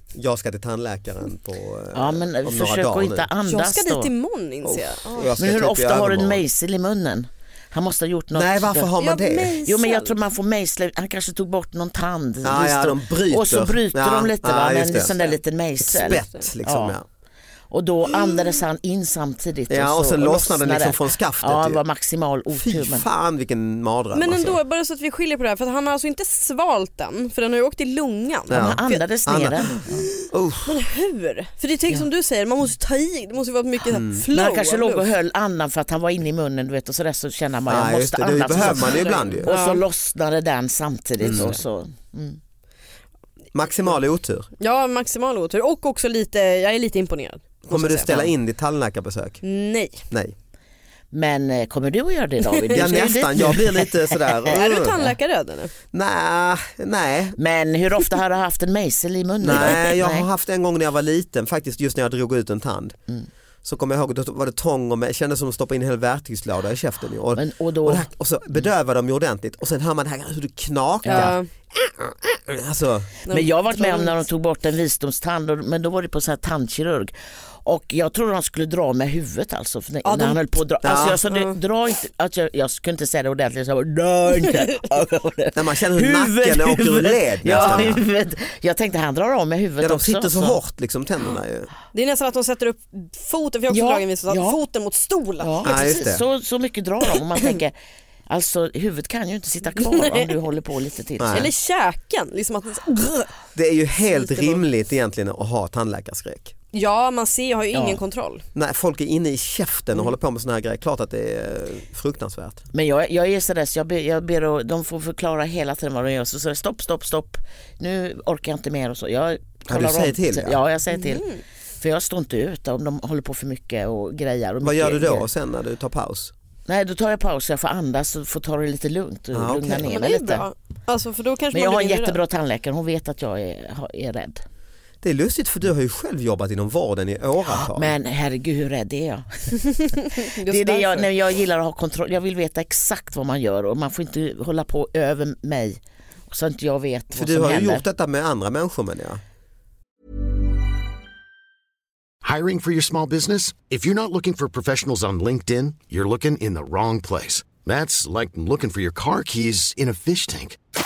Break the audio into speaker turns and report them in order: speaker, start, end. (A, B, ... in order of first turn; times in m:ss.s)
0:00.1-0:03.3 A
0:01.9-0:04.1 B
0:03.4-0:05.4 C
0:04.6-0:06.4 A
0:05.4-0:08.9 B
0:08.3-0:09.6 A
0:09.0-0:10.2 C
0:09.6-0:17.0 B
0:12.4-0:15.1 A
0:14.9-0:15.4 C
0:15.8-0:17.0 A
0:16.0-0:16.5 C
0:17.7-0:23.1 B
0:19.7-0:21.8 A
0:22.5-0:24.6 A
0:24.1-0:29.0 C
0:28.5-0:29.6 A
0:28.5-0:30.1 B
0:30.2-0:30.8 A
0:30.6-0:35.1 C
0:33.9-0:34.2 A
0:34.3-0:42.4 B
0:37.7-0:39.5 A
0:38.6-0:39.8 C
0:41.2-0:41.5 C
0:41.2-0:41.6 A
0:43.5-0:44.5 A
0:44.6-0:48.2 C
0:47.7-0:49.4 A
0:49.4-0:50.0 C
0:51.1-0:54.5 B
0:52.5-0:53.0 C
0:52.7-0:55.0 A
0:54.5-0:55.7 C
0:55.9-0:57.4 A
0:57.4-1:00.3 B
0:59.4-1:03.0 A
0:59.5-0:59.7 C
1:03.6-1:13.1 A
1:07.4-1:08.0 B
1:11.0-1:11.4 B
1:11.1-1:11.5 C
1:13.2-1:14.2 C
1:13.3-1:30.6 B
1:20.0-1:20.4 C
1:20.8-1:21.2 A
1:20.9-1:21.6 C
1:25.5-1:28.0 A
1:27.4-1:28.0 C
1:29.8-1:31.7 A
1:31.9-1:35.8 C
1:33.7-1:34.6 B
1:35.4-1:37.7 B
1:35.6-1:36.2 A
1:38.3-1:41.5 B
1:39.8-1:40.4 C
1:41.2-1:41.5 A
1:41.3-1:43.3 C
1:43.5-1:46.5 A
1:44.2-1:44.6 C
1:46.7-1:48.4 C
1:47.7-1:48.0 B
1:48.5-1:52.7 A
1:52.7-2:01.2 B
1:59.7-2:00.6 A
2:00.9-2:01.4 C
2:01.8-2:05.2 B
2:04.6-2:06.3 A
2:06.7-2:10.4 B
2:09.3-2:09.9 A
2:09.7-2:12.2 C
2:11.5-2:14.4 B
2:15.0-2:17.9 A
2:17.6-2:25.8 B
2:20.1-2:21.1 C
2:26.3-2:27.8 B
2:27.1-2:29.2 A
2:32.2-2:40.6 D